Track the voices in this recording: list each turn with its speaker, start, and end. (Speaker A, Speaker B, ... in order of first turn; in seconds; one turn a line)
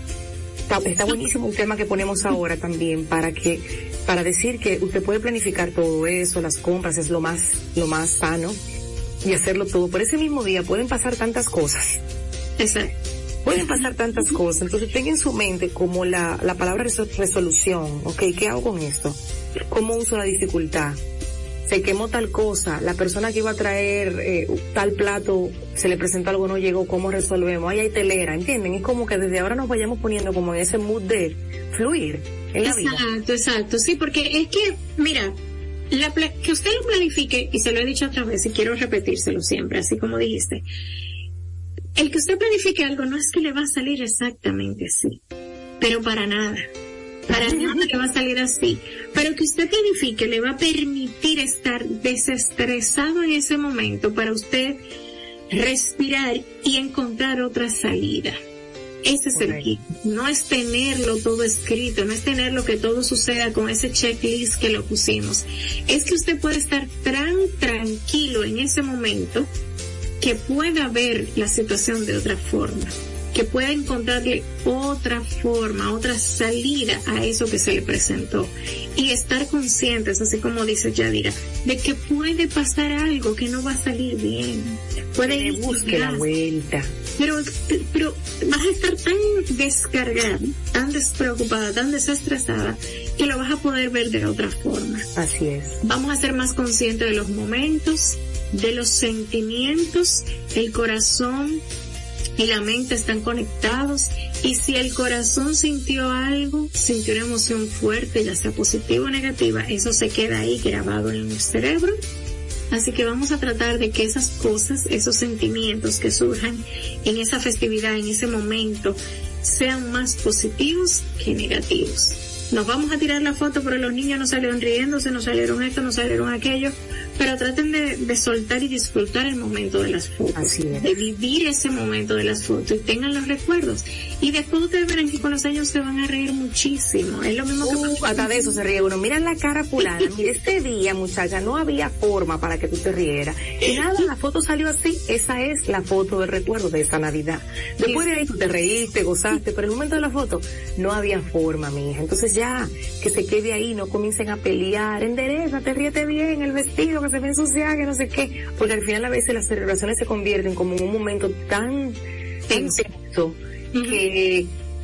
Speaker A: 0.7-8.6
Speaker A: 9.2-12.0
Speaker B: 12.6-12.9
Speaker A: 13.4-21.0
Speaker B: 13.6-13.8
Speaker A: 21.6-33.0
Speaker B: 32.6-35.4
Speaker B: 35.9-40.6
Speaker B: 42.0-45.2
Speaker B: 45.8-46.6
Speaker A: 47.3-47.9
Speaker B: 47.3-54.8
Speaker B: 55.5-58.4
Speaker B: 59.0-69.5
Speaker A: 59.3-59.7
Speaker B: 70.2-86.2
Speaker A: 85.2-86.9
Speaker B: 87.2-95.1
Speaker A: 95.1-95.8
Speaker B: 95.8-101.6
Speaker B: 102.4-112.0
Speaker B: 112.7-138.6
Speaker A: 130.3-130.9
Speaker A: 137.6-164.5
Speaker B: 162.5-162.8
Speaker B: 163.7-164.0